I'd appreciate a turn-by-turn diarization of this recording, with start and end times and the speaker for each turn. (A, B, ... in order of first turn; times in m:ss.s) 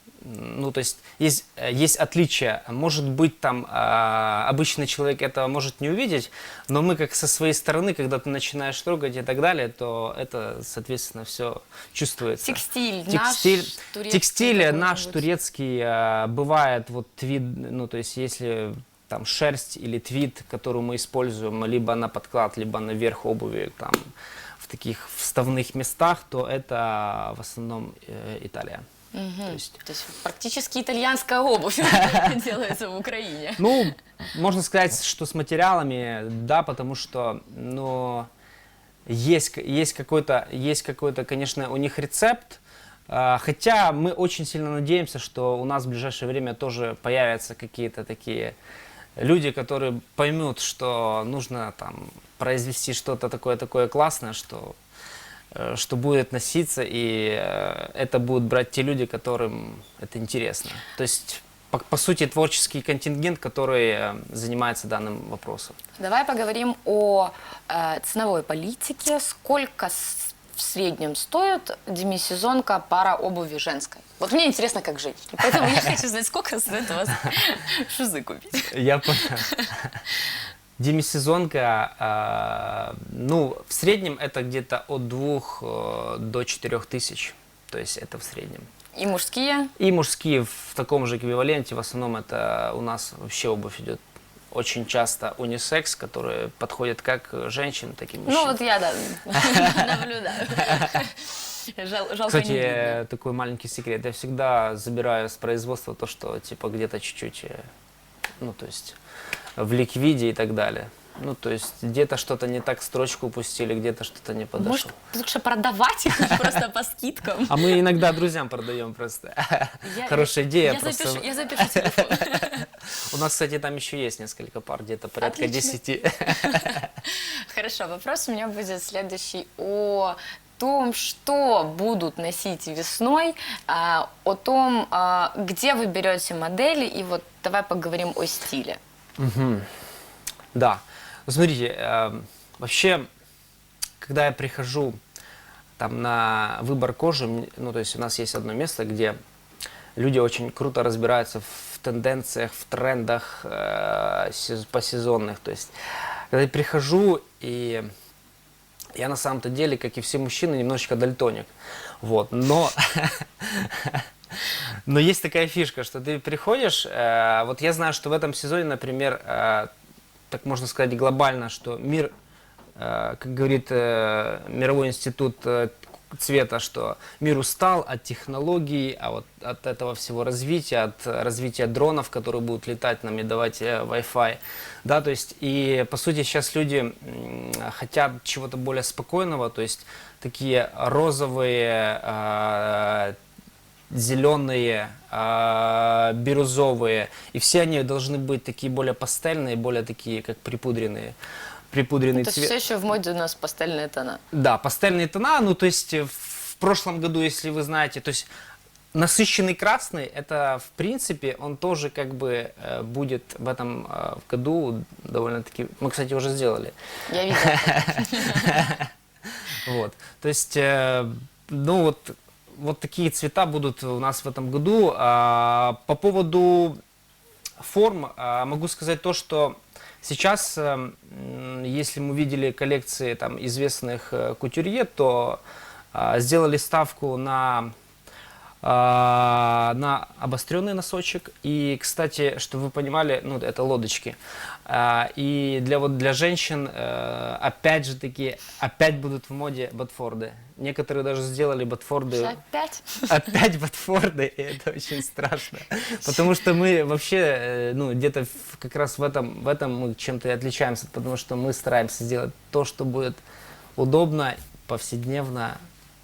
0:00.2-0:28.8 A
0:12.4-0:15.2 B
0:29.1-0:33.8 B
0:29.5-0:29.8 A
0:33.6-0:38.3 A
0:39.1-0:48.6 A
0:49.2-0:54.8 A
0:55.5-1:05.8 A
1:06.0-1:19.7 B
1:15.5-1:16.0 A
1:18.6-1:20.0 A
1:20.8-1:28.7 A
1:29.0-1:29.7 B
1:29.8-1:38.6 A
1:38.2-1:43.0 B
1:40.7-1:41.0 A
1:42.3-1:47.6 A
1:48.4-1:49.0 A
1:49.6-1:54.9 A
1:54.6-1:57.8 B
1:57.5-2:06.9 A
1:59.8-2:02.7 B
2:05.2-2:05.8 B
2:06.4-2:18.8 B
2:19.2-2:19.7 A
2:20.5-2:23.1 A
2:24.0-2:25.0 A
2:25.8-2:29.2 A
2:30.0-2:35.7 A
2:36.3-2:37.8 A
2:38.9-2:41.5 A
2:42.0-2:49.7 A
2:50.3-2:52.1 A
2:52.8-3:13.2 A
3:13.9-3:21.1 A
3:21.7-3:22.5 A
3:22.1-3:24.2 B
3:24.3-3:28.3 A
3:28.9-3:36.7 A
3:37.1-3:38.6 B
3:37.3-3:38.9 A
3:39.5-3:46.8 A
3:47.6-3:55.4 A
3:55.9-3:57.7 A
3:58.6-4:12.4 A
4:12.1-4:13.2 B
4:13.1-4:23.2 A
4:23.8-4:25.6 A